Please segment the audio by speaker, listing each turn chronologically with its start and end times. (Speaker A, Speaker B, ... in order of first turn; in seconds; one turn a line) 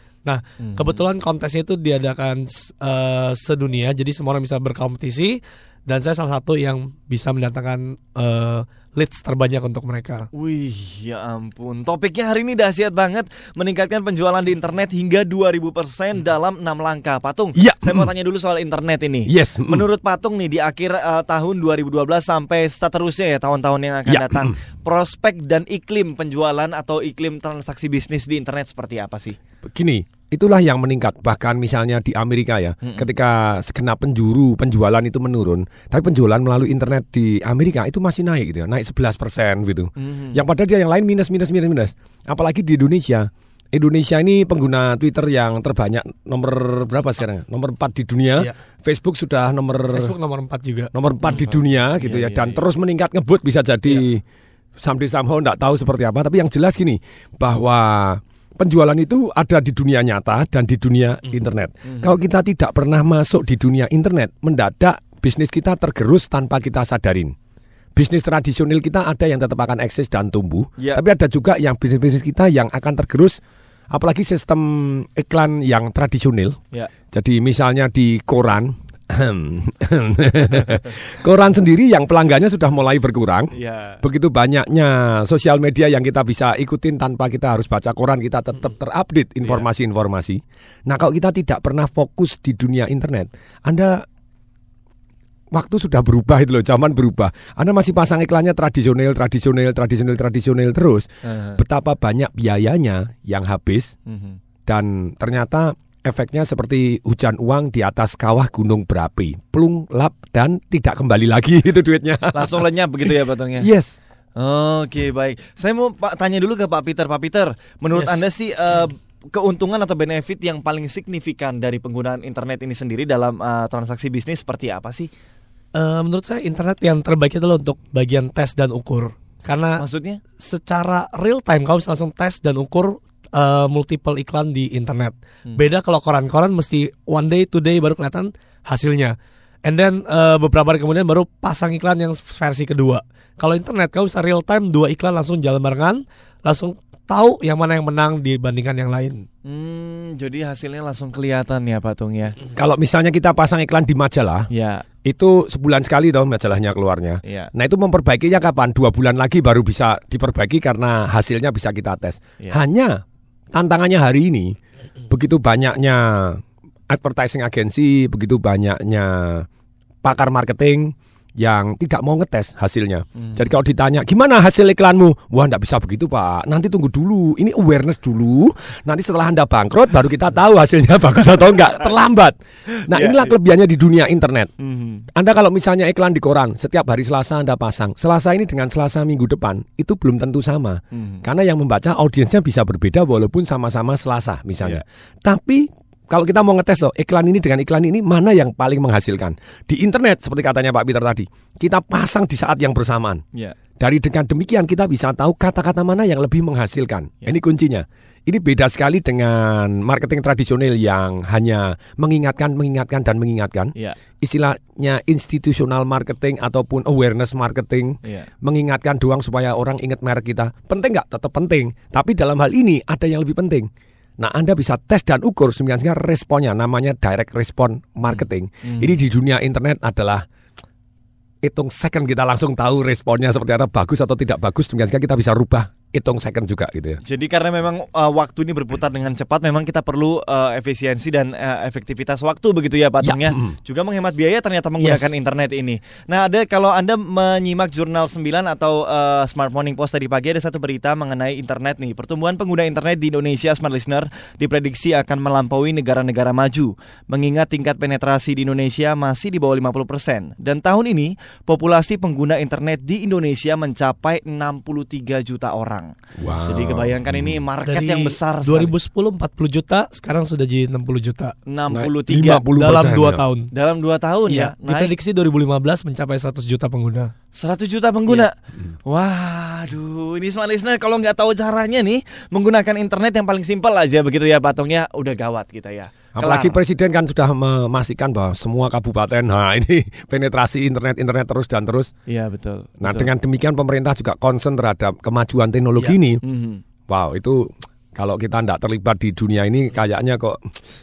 Speaker A: 0.2-10.3
Speaker B: 0.6-1.0
Speaker B: 10.3-29.4
Speaker C: 17.6-18.1
Speaker C: 19.3-19.8
Speaker C: 24.1-24.5
Speaker C: 29.7-50.1
Speaker B: 40.0-40.4
Speaker A: 49.9-51.4
Speaker C: 50.9-54.2
Speaker B: 51.3-52.6
Speaker C: 54.8-67.3
Speaker C: 67.9-73.4
Speaker C: 73.9-76.6
Speaker C: 77.1-83.5
Speaker B: 83.5-84.0
Speaker C: 84.0-94.0
Speaker C: 95.5-103.9
Speaker B: 101.2-101.6
Speaker B: 104.1-104.4
Speaker C: 104.7-113.1
Speaker B: 112.3-113.7
Speaker C: 113.6-114.0
Speaker B: 114.4-125.1
Speaker A: 117.9-118.2
Speaker A: 125.7-129.8
Speaker B: 129.8-130.2
Speaker A: 130.4-149.2
Speaker B: 149.4-152.4
Speaker C: 152.6-154.5
Speaker B: 154.5-154.8
Speaker C: 155.0-162.9
Speaker C: 163.5-164.6
Speaker C: 165.1-169.4
Speaker C: 170.0-182.3
Speaker B: 173.2-173.4
Speaker C: 182.9-184.5
Speaker B: 182.9-183.3
Speaker B: 184.6-185.0
Speaker C: 185.1-203.2
Speaker B: 190.9-191.2
Speaker C: 203.8-230.2
Speaker B: 228.1-228.9
Speaker C: 231.4-237.0
Speaker B: 237.0-265.9
Speaker C: 243.0-243.6
Speaker A: 244.8-245.1
Speaker C: 266.2-267.3
Speaker B: 266.4-268.7
Speaker A: 267.6-271.3
Speaker B: 271.5-272.4
Speaker C: 271.7-273.2
Speaker A: 272.6-273.5
Speaker B: 273.5-274.9
Speaker A: 274.3-277.1
Speaker B: 277.3-278.3
Speaker B: 278.9-286.6
Speaker C: 286.2-291.9
Speaker B: 292.1-293.1
Speaker C: 292.8-296.2
Speaker B: 296.2-296.6
Speaker C: 296.9-300.6